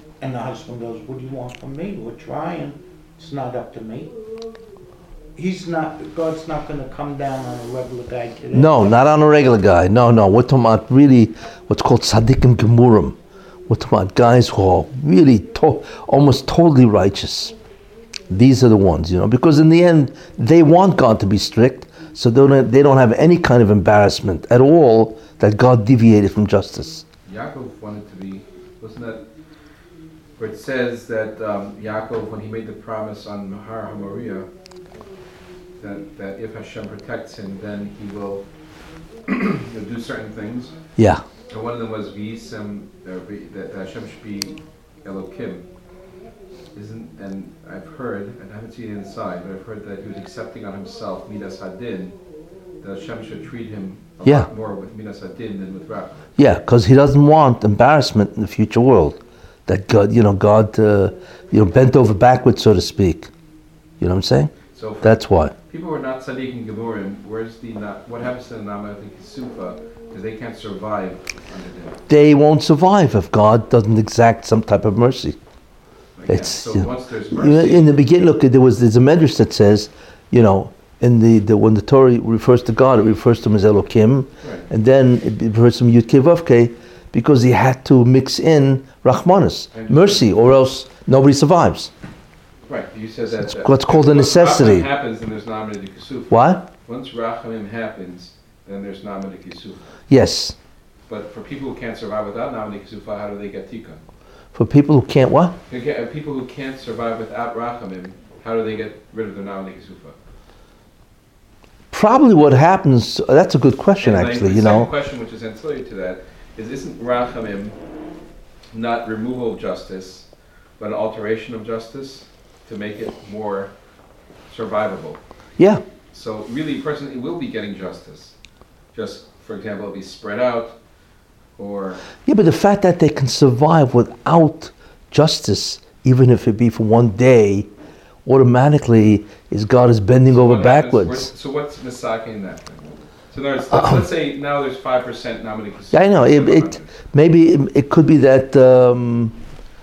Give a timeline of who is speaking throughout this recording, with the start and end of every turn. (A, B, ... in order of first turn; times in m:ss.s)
0:00.2-0:04.2 A
0:05.3-0:09.0 A
0:08.5-0:13.2 B
0:13.7-0:17.5 B
0:18.3-0:27.0 B
0:27.2-0:29.2 C
0:30.4-0:34.5 C
0:35.8-0:38.5 C
0:39.3-0:40.7 C
0:41.0-0:41.2 B
0:41.5-0:45.6 C
0:46.7-0:52.1 C
0:52.8-0:56.3 C
0:54.2-0:54.5 B
0:56.4-1:03.3 B
1:04.0-1:05.5 B
1:04.7-1:12.0 C
1:12.1-1:15.4 B
1:16.2-1:17.9 C
1:16.3-1:31.9 B
1:29.7-1:30.2 C
1:32.7-1:39.9 C
1:33.4-1:34.8 B
1:36.3-1:36.6 B
1:40.1-1:40.6 B
1:41.1-1:44.0 C
1:44.5-1:45.6 B
1:45.7-1:50.1 C
1:51.9-1:54.9 B
1:54.0-1:57.8 C
1:58.7-2:00.3 C
2:00.8-2:03.7 C
2:04.5-2:05.2 C
2:05.6-2:05.8 B
2:06.1-2:08.3 C
2:08.9-2:10.8 C
2:11.6-2:12.0 C
2:12.2-2:17.7 B
2:18.2-2:21.3 B
2:20.3-2:26.9 C
2:23.7-2:24.0 B
2:25.9-2:29.3 B